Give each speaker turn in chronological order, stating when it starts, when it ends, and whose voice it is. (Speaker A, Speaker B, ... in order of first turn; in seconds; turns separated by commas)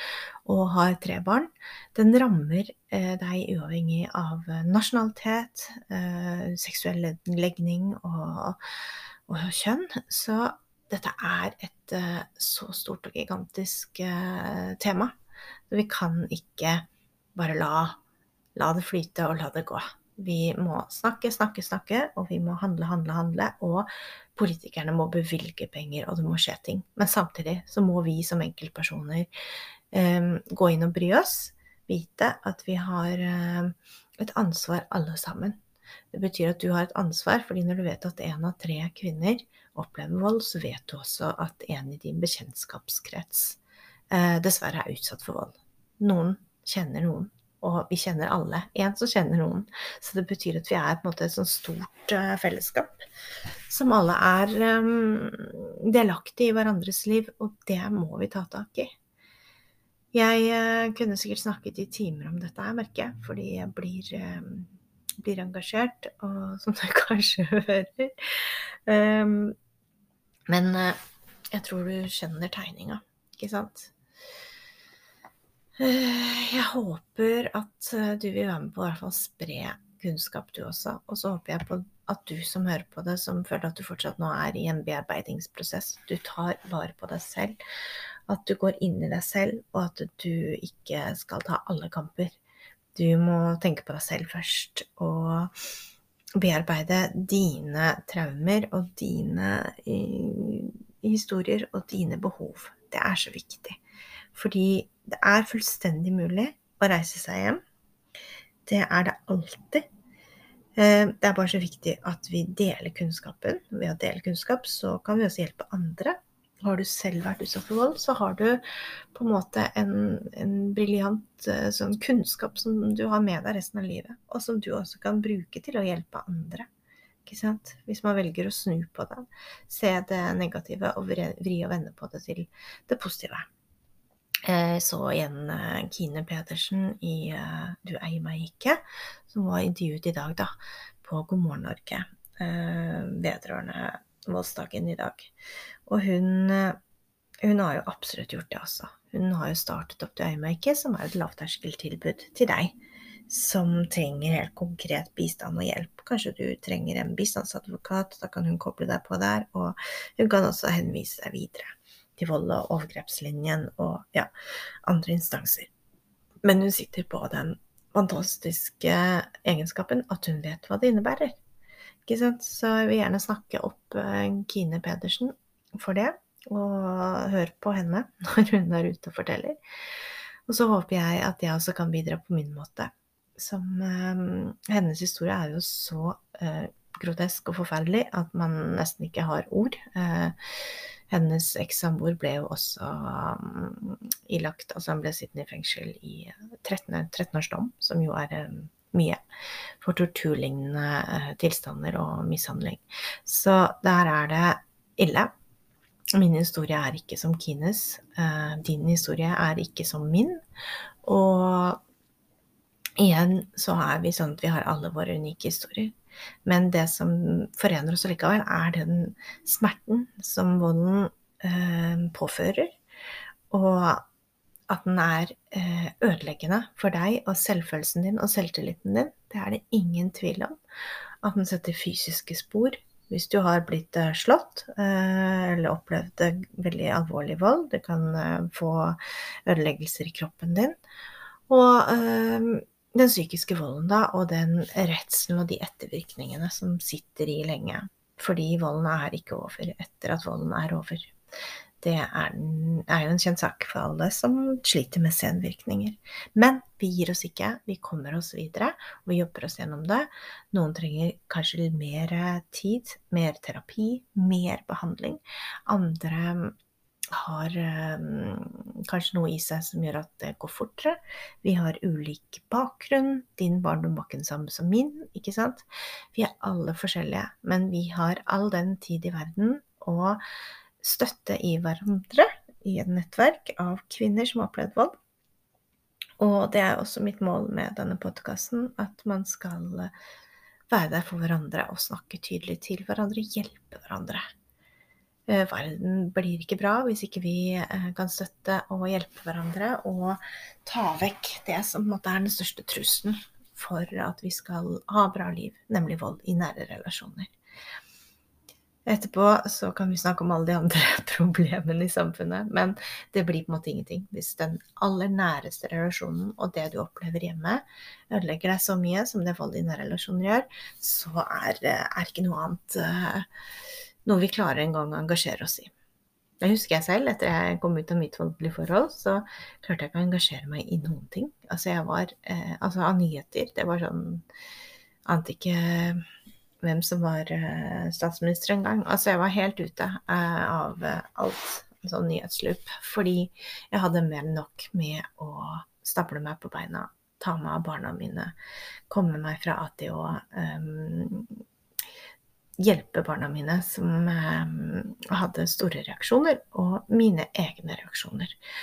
Speaker A: 0.5-15.1, Speaker A: 15.7-16.9, Speaker A: 17.4-18.0, Speaker A: 18.6-29.3, Speaker A: 29.9-35.6, Speaker A: 36.1-43.6, Speaker A: 44.1-53.0, Speaker A: 53.7-58.9, Speaker A: 60.1-69.6, Speaker A: 70.5-71.0, Speaker A: 71.5-73.9, Speaker A: 75.8-87.6, Speaker A: 88.3-92.4, Speaker A: 93.0-95.5, Speaker A: 96.4-103.8, Speaker A: 104.3-107.6, Speaker A: 108.7-109.8, Speaker A: 110.8-118.6, Speaker A: 119.1-126.7, Speaker A: 127.3-133.5, Speaker A: 134.5-145.3, Speaker A: 145.9-146.8, Speaker A: 147.4-152.8, Speaker A: 153.3-164.3, Speaker A: 164.9-165.7, Speaker A: 166.4-171.4, Speaker A: 172.1-179.6, Speaker A: 180.5-199.2, Speaker A: 199.8-205.3, Speaker A: 206.1-210.4, Speaker A: 211.0-211.8, Speaker A: 213.0-215.9, Speaker A: 216.5-222.7, Speaker A: 223.5-224.1, Speaker A: 224.7-230.6, Speaker A: 231.2-240.8, Speaker A: 241.5-251.1, Speaker A: 251.8-266.6, Speaker A: 267.1-280.2, Speaker A: 280.8-284.9, Speaker A: 286.2-289.9, Speaker A: 290.7-294.2, Speaker A: 295.3-307.3, Speaker A: 308.9-323.3, Speaker A: 324.1-325.7, Speaker A: 326.4-334.2, Speaker A: 335.1-336.0, Speaker A: 336.6-348.4, Speaker A: 348.9-351.4, Speaker A: 352.6-358.4